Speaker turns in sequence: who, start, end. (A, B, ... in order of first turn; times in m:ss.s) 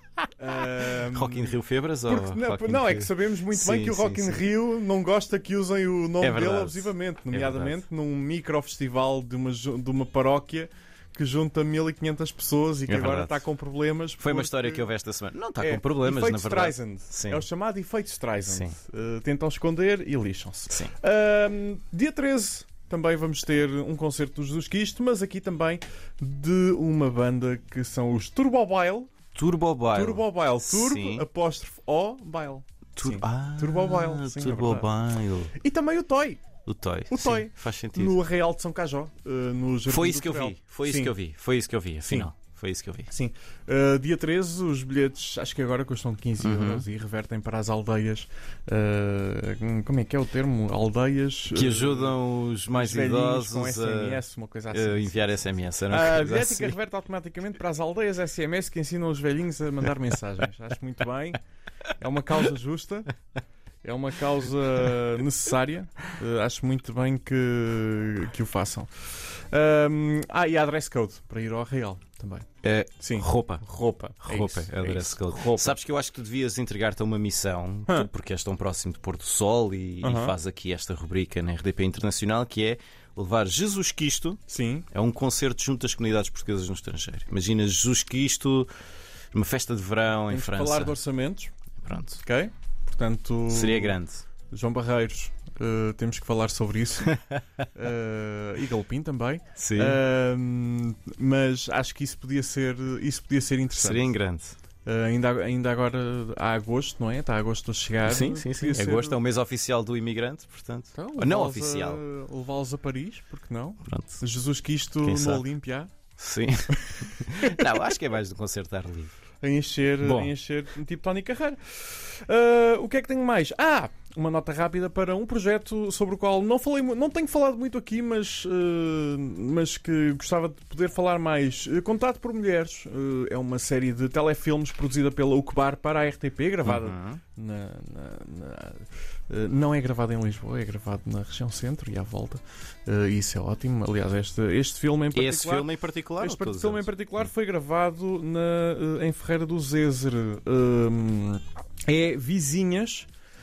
0:00.4-0:14.9 A
0:00.9-0:04.5 B
0:06.2-0:07.8 B
0:12.9-0:13.5 B
0:14.2-0:17.5 B
0:15.6-0:29.1 A
0:18.5-0:18.8 B
0:29.3-0:31.3 B
0:29.9-0:34.9 A
0:33.0-0:35.6 B
0:35.6-0:36.4 A
0:36.7-0:38.2 B
0:37.1-0:41.2 A
0:39.9-0:43.1 B
0:42.0-0:42.3 A
0:43.1-1:01.4 A
0:46.4-0:46.9 B
0:51.5-0:56.8 B
1:02.0-1:03.1 A
1:03.8-1:12.5 A
1:12.6-1:13.7 B
1:13.0-1:15.8 A
1:14.2-1:28.7 B
1:20.0-1:20.4 A
1:24.5-1:24.9 A
1:29.3-1:31.0 B
1:30.3-1:31.5 A
1:31.8-1:32.2 B
1:32.2-1:34.0 A
1:33.5-1:34.2 B
1:34.5-1:37.2 A
1:37.8-1:44.2 A
1:39.6-1:40.0 B
1:43.8-1:44.6 B
1:44.8-1:49.2 A
1:48.0-1:52.0 B
1:50.9-1:55.9 A
1:53.8-1:54.2 B
1:55.0-1:55.5 B
1:56.2-1:59.2 B
1:56.8-1:57.8 A
1:59.4-2:33.1 A
2:00.0-2:00.3 B
2:16.6-2:17.2 B
2:25.1-2:26.9 B